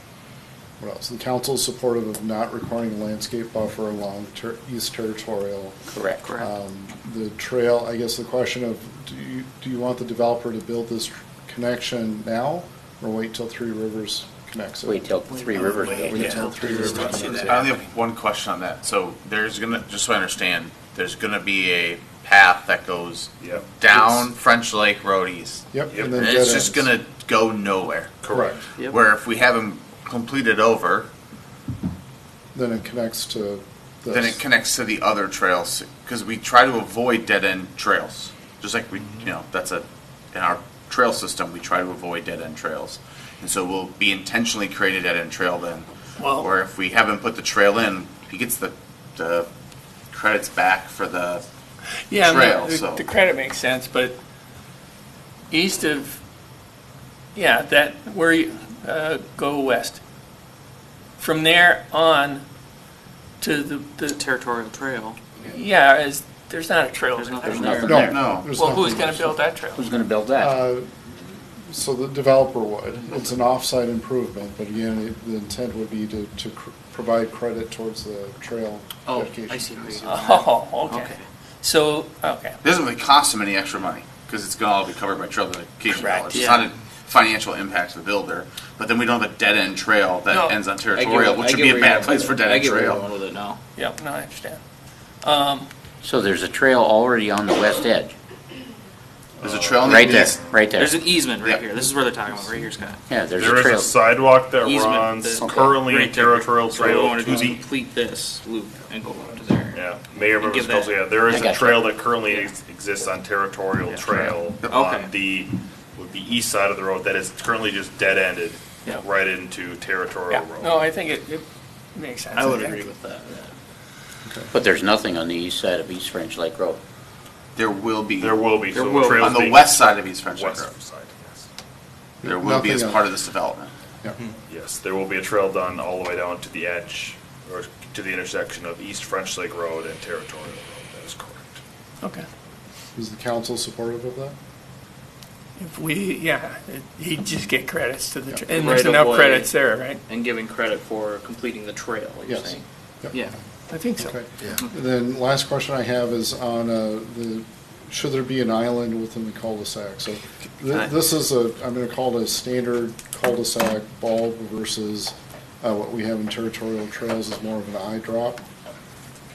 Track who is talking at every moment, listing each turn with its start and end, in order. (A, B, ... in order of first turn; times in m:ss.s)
0:00.8-0:05.8 A
0:05.9-0:06.3 B
0:06.2-0:06.5 C
0:06.3-0:17.5 A
0:14.8-0:17.4 B
0:16.2-0:17.3 D
0:17.4-0:28.2 E
0:25.7-0:26.9 A
0:25.9-0:26.2 F
0:28.2-0:28.6 F
0:28.9-0:31.1 E
0:32.5-0:34.4 A
0:34.1-0:49.5 E
0:46.2-0:46.5 D
0:50.1-0:51.4 E
0:52.1-0:54.2 D
0:52.2-0:53.0 E
0:55.5-0:56.2 D
0:57.4-1:00.0 D
1:01.2-1:02.4 D
1:03.4-1:04.2 D
1:04.1-1:05.2 C
1:05.5-1:09.9 D
1:07.2-1:07.9 C
1:07.5-1:08.2 B
1:07.9-1:09.4 A
1:08.0-1:08.5 E
1:09.8-1:10.5 B
1:10.4-1:20.1 A
1:19.1-1:21.2 C
1:20.1-1:22.6 D
1:22.6-1:33.1 E
1:25.9-1:26.5 D
1:30.3-1:30.6 D
1:30.9-1:33.6 C
1:33.8-1:34.6 D
1:35.2-1:35.7 D
1:36.0-1:38.1 B
1:39.4-1:39.9 A
1:39.4-1:40.4 E
1:39.8-1:41.1 B
1:39.9-1:40.4 F
1:40.8-1:43.0 C
1:43.1-1:44.0 B
1:43.4-1:47.6 F
1:44.6-1:49.8 C
1:45.4-1:45.9 B
1:49.7-2:00.8 F
1:50.4-1:50.9 C
1:51.2-1:52.0 B
1:53.9-1:54.1 C
1:54.6-1:54.9 E
1:54.7-1:55.1 C
2:00.3-2:02.8 D
2:02.3-2:03.5 C
2:04.3-2:04.5 A
2:04.5-2:06.8 B
2:07.6-2:10.7 E
2:08.2-2:11.5 F
2:08.7-2:09.5 C
2:12.2-2:13.0 A
2:12.2-2:13.7 E
2:14.5-2:21.6 F
2:23.0-2:24.4 A
2:25.6-2:30.0 D
2:28.5-2:29.5 C
2:30.1-2:33.4 C
2:32.2-2:33.2 A
2:33.7-2:34.2 D
2:34.0-2:48.4 A